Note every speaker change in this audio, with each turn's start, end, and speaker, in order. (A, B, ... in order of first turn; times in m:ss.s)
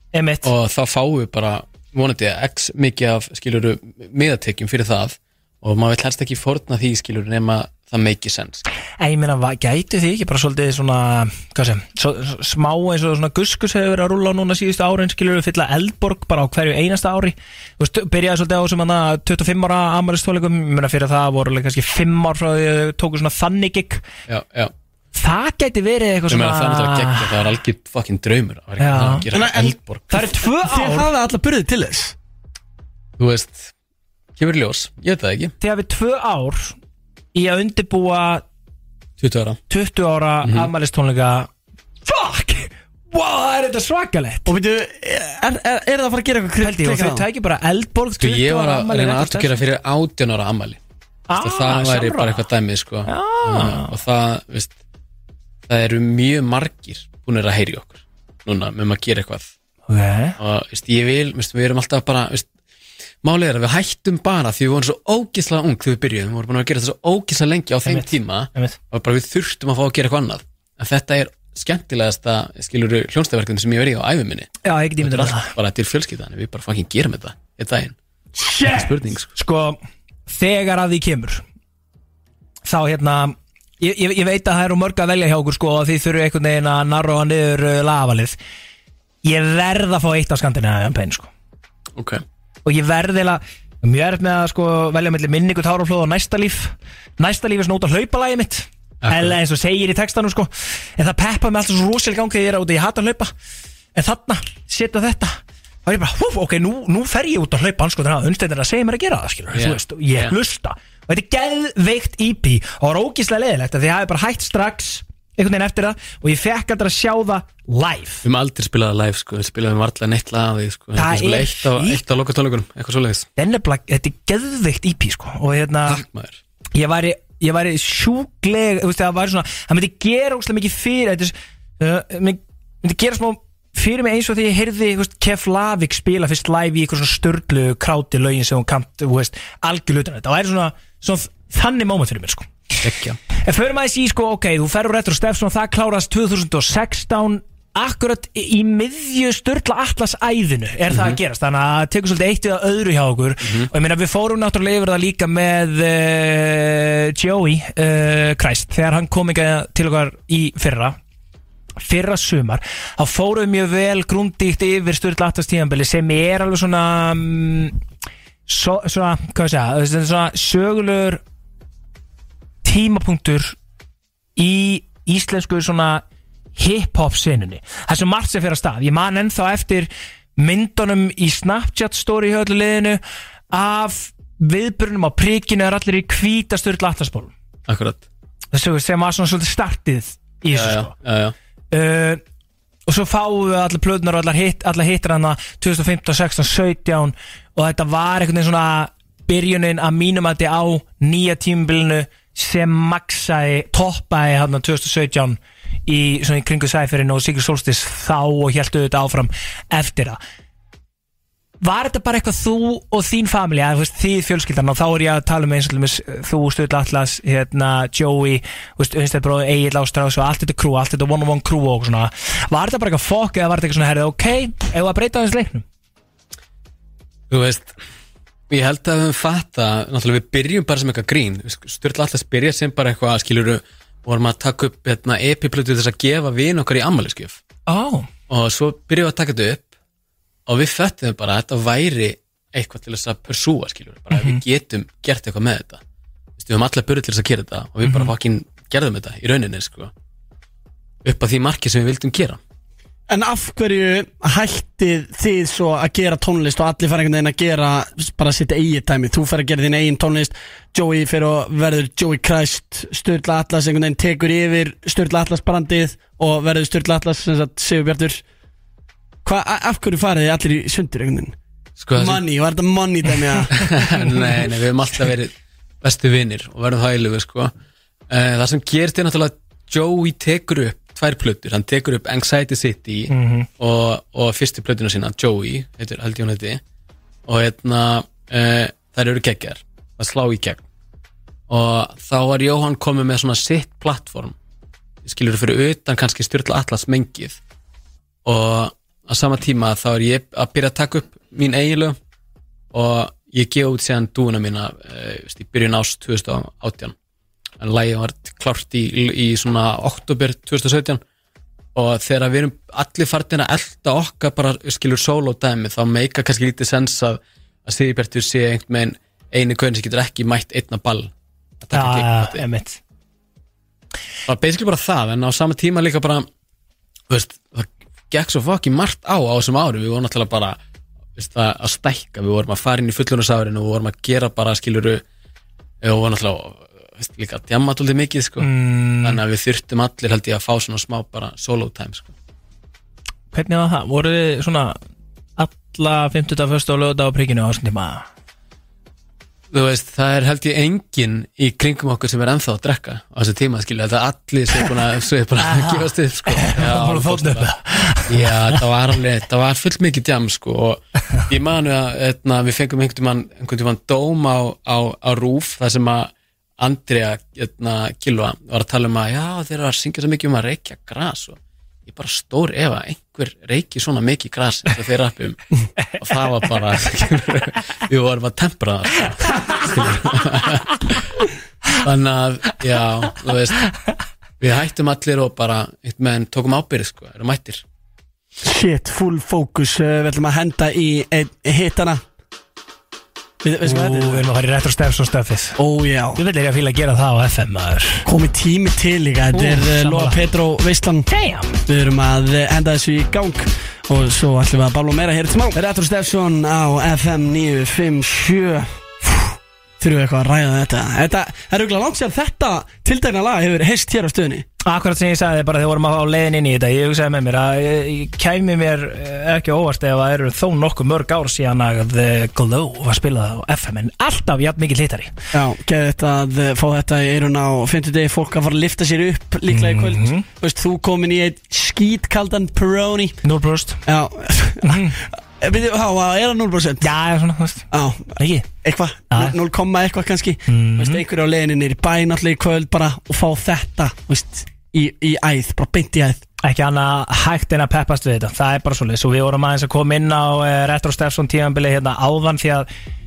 0:00.1-0:00.5 A
0:00.4-0:08.6 B
0:09.0-0:24.0 A
0:24.3-0:24.7 B
0:25.1-0:27.4 A
0:26.3-0:30.0 B
0:28.8-0:31.1 A
0:29.3-0:32.1 C
0:33.2-0:33.7 B
0:34.4-0:35.6 B
0:35.6-0:36.7 A
0:37.3-0:38.4 A
0:39.2-0:39.6 B
0:39.7-0:41.5 A
0:40.4-0:40.7 B
0:42.0-0:44.5 A
0:44.4-0:47.2 C
0:46.6-0:49.6 A
0:48.2-0:50.8 B
0:51.3-0:52.5 A
0:51.4-0:54.7 B
0:53.0-0:53.9 A
0:55.7-0:59.5 B
0:59.9-1:00.4 A
1:00.4-1:02.5 B
1:03.2-1:14.5 B
1:07.8-1:08.8 A
1:14.6-1:15.5 A
1:15.0-1:18.0 B
1:18.4-1:21.4 A
1:18.6-1:19.3 B
1:22.7-1:28.4 A
1:29.2-1:31.3 A
1:32.0-1:32.2 B
1:32.6-1:43.3 A
1:39.0-1:39.4 B
1:44.0-1:58.2 A
1:49.5-1:50.3 B
1:58.2-2:03.3 B
2:01.0-2:02.0 A
2:03.4-2:06.0 A
2:05.9-2:06.4 B
2:06.7-2:22.5 A
2:22.8-2:23.2 B
2:23.4-2:41.0 A
2:30.9-2:31.2 B
2:33.4-2:33.7 B
2:41.8-2:47.8 A
2:48.5-2:51.2 A
2:52.6-2:53.6 A
2:54.4-2:56.0 A
2:56.6-3:03.0 A
3:03.5-3:07.3 A
3:07.7-3:08.0 B
3:08.5-3:10.9 A
3:10.5-3:11.3 B
3:11.7-3:12.2 A
3:12.9-3:30.2 A
3:31.6-3:45.6 A
3:47.3-3:47.7 B
3:48.5-3:57.4 B
3:57.7-3:58.1 A
3:58.3-3:59.7 B
4:00.5-4:05.8 B
4:04.1-4:04.4 A
4:06.4-4:09.9 B
4:07.9-4:08.1 A
4:11.0-4:12.4 B
4:13.1-4:28.2 C
4:29.2-4:31.4 C
4:31.8-4:32.2 B
4:32.0-4:33.8 C
4:33.6-4:37.5 B
4:38.1-4:46.6 B
4:43.1-4:43.5 A
4:47.3-4:50.6 B
4:51.5-4:54.4 B
4:55.0-4:57.4 B
4:58.2-5:02.0 B
5:02.7-5:07.0 B
5:07.6-5:11.0 B
5:11.7-5:22.4 B
5:21.7-5:22.8 A
5:24.3-5:26.3 B
5:27.1-5:30.6 B
5:31.2-5:35.0 B
5:35.8-5:38.5 B
5:38.4-5:39.2 A
5:39.0-5:42.1 B
5:43.3-5:44.8 A
5:45.4-5:48.0 A
5:49.5-5:57.5 B
5:55.4-5:58.6 A
5:58.1-6:15.4 B
6:15.9-6:21.0 B
6:19.4-6:20.1 A
6:21.8-6:23.7 B
6:24.4-6:27.6 B
6:28.4-6:32.0 C
6:33.4-6:34.3 C
6:33.6-6:35.6 A
6:35.6-6:36.2 C
6:36.2-6:38.0 A
6:38.0-6:41.1 C
6:39.3-6:40.2 A
6:41.1-6:41.6 A
6:41.7-6:54.4 C
6:54.6-7:05.1 A
7:05.3-7:13.2 C
7:09.5-7:10.3 A
7:13.2-7:13.8 A
7:13.9-7:16.9 C
7:14.6-7:15.0 A
7:16.8-7:18.4 A
7:17.7-7:26.2 C
7:19.1-7:19.4 A
7:20.5-7:21.0 A
7:26.4-7:32.7 A